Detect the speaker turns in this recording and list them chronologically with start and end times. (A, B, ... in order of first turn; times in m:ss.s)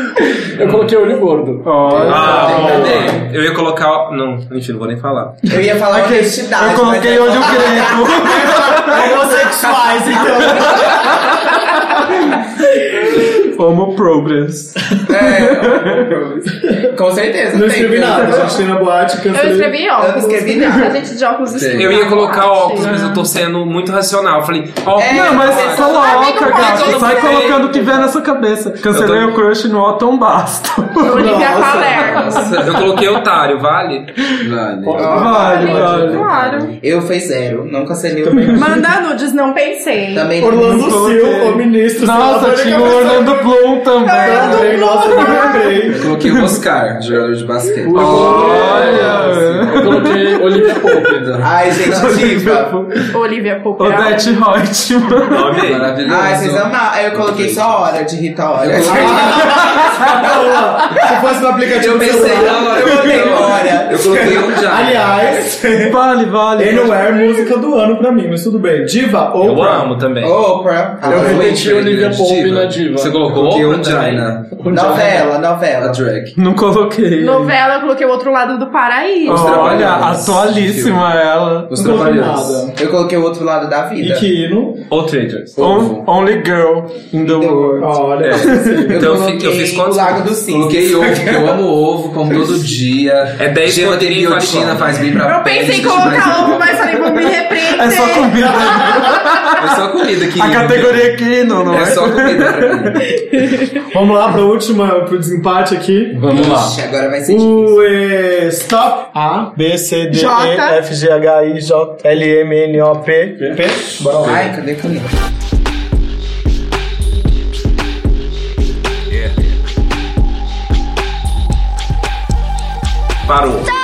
0:00.5-0:03.2 A
0:00.6-0:00.9 B
0:01.6-0:02.9 C
0:01.9-0:05.5 B
0:02.2-0:03.1 D
0:02.4-0:03.0 E
0:05.4-0:10.4 F
0:05.9-0:09.1 C
0:08.4-0:11.2 E
0:10.6-0:11.5 C
0:13.1-0:16.0 C
0:15.1-0:18.6 F
0:17.5-0:19.8 E
0:18.1-0:18.5 C
0:19.3-0:22.9 G
0:20.0-0:21.0 F
0:21.5-0:22.0 D
0:21.7-0:27.6 B
0:22.7-0:23.3 C
0:25.0-0:28.0 F
0:25.0-0:31.4 C
0:25.5-0:27.6 G
0:28.9-0:29.3 B
0:31.0-0:32.5 G
0:31.1-0:32.0 E
0:31.8-0:32.9 D
0:32.0-0:32.4 C
0:32.6-0:34.2 B
0:34.4-0:36.7 D
0:34.8-0:35.2 A
0:34.9-0:38.8 F
0:35.0-0:36.3 C
0:35.1-0:36.7 G
0:38.2-0:38.7 E
0:38.3-0:38.8 C
0:38.5-0:40.3 G
0:40.1-0:40.8 F
0:40.4-0:43.6 E
0:40.6-0:45.3 C
0:44.0-0:45.9 G
0:44.2-0:46.1 E
0:45.9-0:50.1 D
0:46.2-0:46.6 C
0:47.8-0:49.2 E
0:47.9-0:51.0 C
0:48.2-0:51.4 A
0:51.1-0:51.6 D
0:51.4-0:52.8 F
0:51.7-0:53.1 C
0:53.1-0:54.3 G
0:53.8-0:55.6 C
0:55.3-0:55.9 B
0:55.6-0:57.8 D
0:56.0-1:01.0 F
0:58.6-0:59.6 D
0:58.8-1:03.2 E
0:59.5-1:00.1 C
1:01.7-1:04.6 F
1:01.8-1:05.1 D
1:04.1-1:06.0 E
1:05.8-1:07.1 C
1:06.6-1:09.9 E
1:09.4-1:10.4 B
1:10.2-1:11.6 F
1:11.0-1:14.6 D
1:11.0-1:13.2 A
1:13.0-1:14.3 B
1:14.5-1:15.3 A
1:14.7-1:16.0 F
1:15.8-1:16.3 D
1:16.3-1:17.5 C
1:17.2-1:19.7 G
1:19.2-1:21.1 D
1:19.2-1:22.3 C
1:21.7-1:22.7 D
1:21.7-1:22.7 E
1:22.7-1:24.3 F
1:24.0-1:24.8 E
1:24.9-1:25.6 B
1:25.6-1:26.1 D
1:25.6-1:28.9 C
1:27.2-1:28.0 F
1:27.8-1:29.3 E
1:28.2-1:30.3 B
1:28.9-1:31.6 F
1:30.4-1:36.8 D
1:33.4-1:35.1 B
1:35.2-1:39.0 G
1:37.1-1:43.2 C
1:38.8-1:39.2 E
1:39.6-1:43.0 D
1:43.3-1:43.7 G
1:43.9-1:46.3 E
1:46.1-1:46.8 C
1:46.3-1:47.9 F
1:47.2-1:54.5 E
1:50.1-1:50.8 G
1:54.2-1:55.1 F
2:03.2-2:03.7 B